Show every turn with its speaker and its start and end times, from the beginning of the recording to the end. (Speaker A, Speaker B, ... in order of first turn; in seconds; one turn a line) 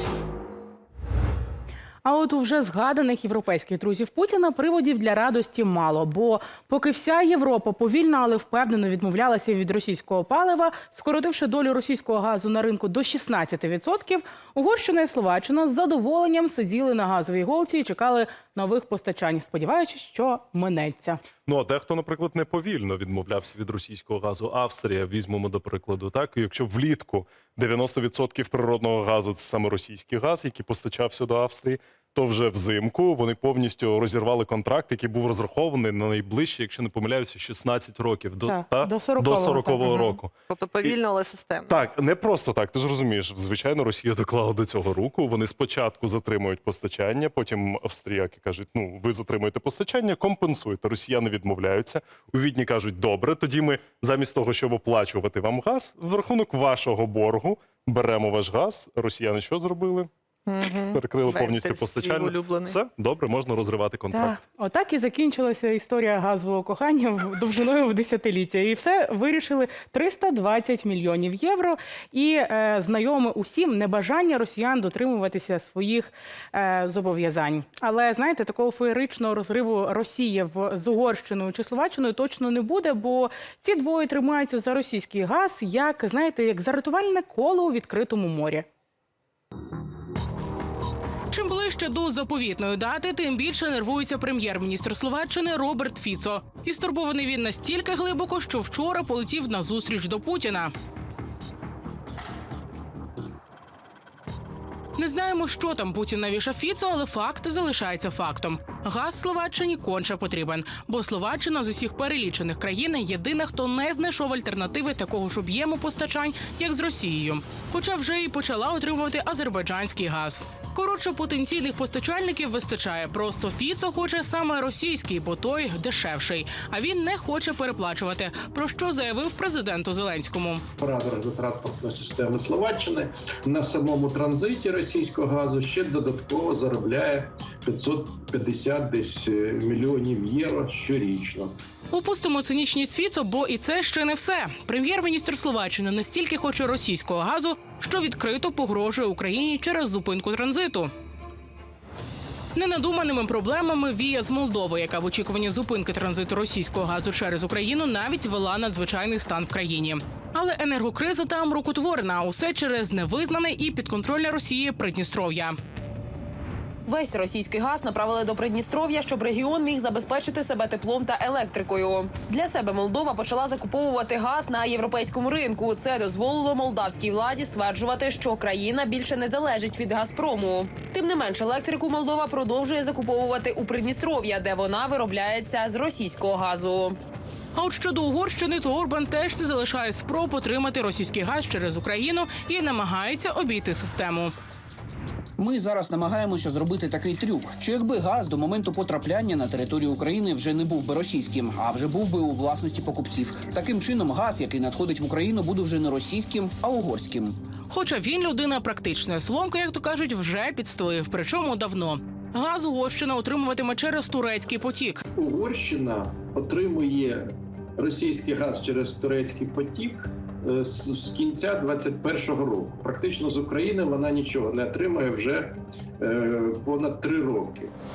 Speaker A: 2.0-21.2
Speaker B: 21.4-41.0
Speaker A: 38.5-39.9
Speaker C: 39.8-41.8
Speaker B: 41.7-60.1
Speaker C: 60.5-62.8
Speaker B: 60.7-64.4
Speaker A: 64.1-88.6
Speaker D: 91.3-100.7
Speaker D: 105.0-130.6
Speaker E: 130.8-141.5
Speaker D: 141.9-150.9
Speaker D: 152.5-165.6
Speaker F: 166.9-187.0
Speaker D: 187.6-194.3
Speaker G: 195.4-207.3
Speaker D: 207.7-215.0
Speaker E: 215.2-227.7